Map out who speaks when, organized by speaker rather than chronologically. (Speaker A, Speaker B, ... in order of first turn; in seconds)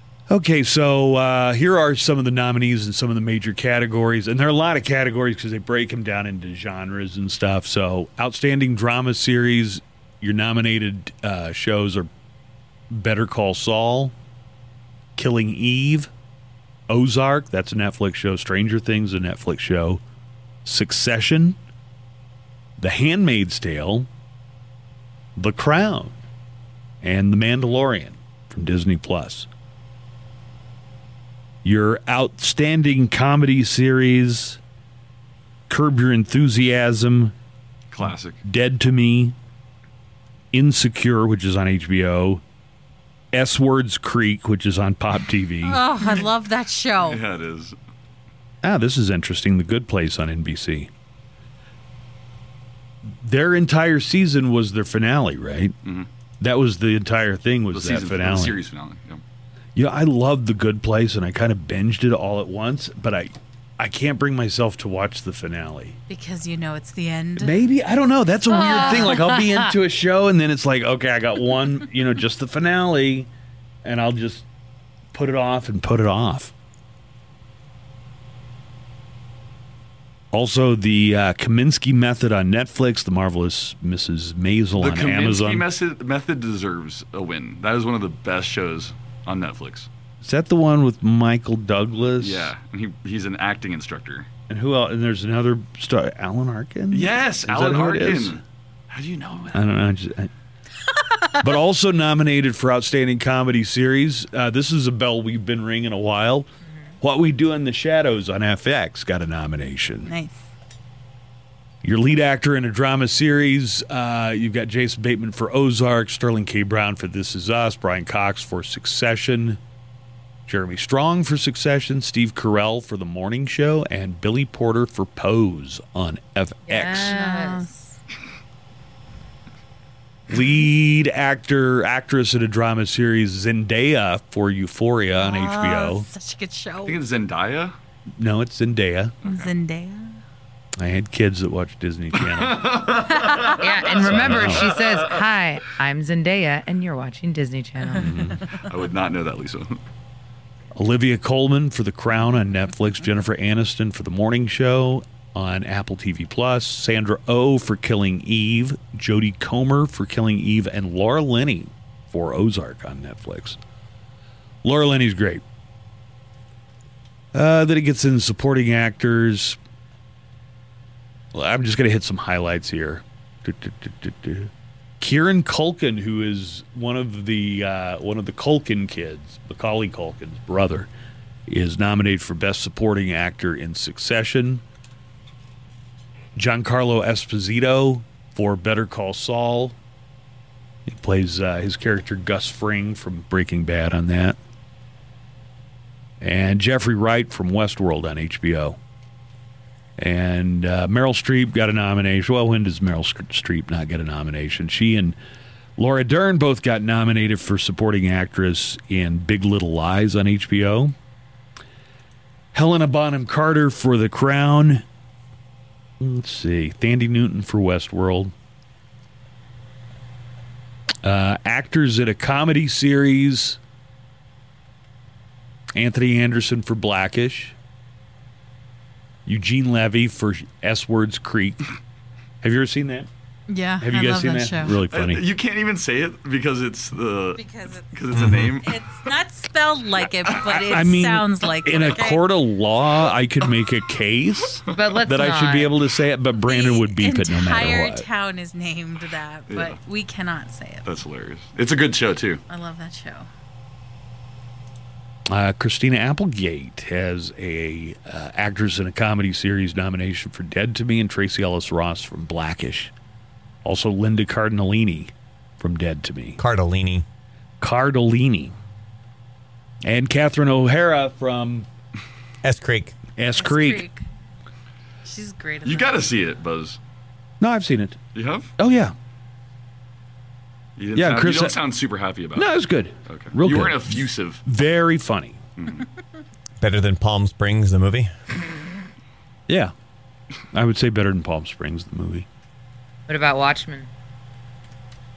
Speaker A: 0.3-12.1, 12.9-14.1, 15.2-16.1, 16.9-20.0, 20.6-21.6, 22.8-24.1, 25.4-26.2, 27.0-29.5, 31.6-34.6, 35.7-37.3, 38.4-39.4, 40.5-42.4, 43.3-45.8, 48.6-50.9, 53.2-55.7, 56.4-58.6, 59.8-66.0, 67.4-73.3, 73.8-74.4, 75.1-76.5, 80.3-85.6, 90.2-92.5, 94.5-98.4, 99.5-100.3, 101.4-106.5, 107.0-110.1, 111.8-119.6, 120.5-127.1, 130.3-136.1, 138.2-139.2, 140.8-142.9, 143.9-144.8, 148.0-148.4, 150.7-163.6, 164.6-165.4, 167.3-169.6, 171.3-180.9, 181.5-184.6, 186.4-189.7, 190.9-194.4, 196.2-198.8, 200.0-205.2, 205.8-210.9, 212.5-214.8, 216.0-218.3, 221.0-223.6, 225.7-227.5, 229.2-231.7, 232.4-233.1, 233.8-235.2, 240.4-248.1, 255.3-262.9, 263.6-266.4, 267.6-268.5, 269.8-271.7, 273.2-273.9, 277.4-278.0, 278.6-278.9, 280.9-281.6, 282.4-285.4, 289.5-289.7, 290.5-292.2
Speaker B: 37.9-38.4, 47.0-47.7, 57.7-59.2, 84.8-89.9, 92.2-94.3, 96.9-99.6, 136.8-137.7, 139.2-139.5, 142.3-145.0, 148.6-149.8, 234.7-239.0, 249.5-249.8, 250.8-252.4, 275.6-276.8, 278.1-278.5, 280.8-282.5, 283.1-284.4, 285.6-285.9
Speaker C: 45.6-47.2, 66.1-67.6, 68.7-69.1, 110.0-110.4, 127.0-127.7, 135.1-137.0, 139.2-140.2, 143.0-143.9, 148.0-148.6, 233.5-234.8, 237.4-237.9, 238.6-242.3, 246.4-250.9, 252.5-253.3, 273.4-274.0, 275.0-276.1
Speaker D: 68.5-69.7, 126.7-127.7, 143.6-148.1, 244.7-245.7, 293.1-293.9
Speaker E: 238.1-238.5, 266.4-267.0, 272.4-272.9, 286.6-288.1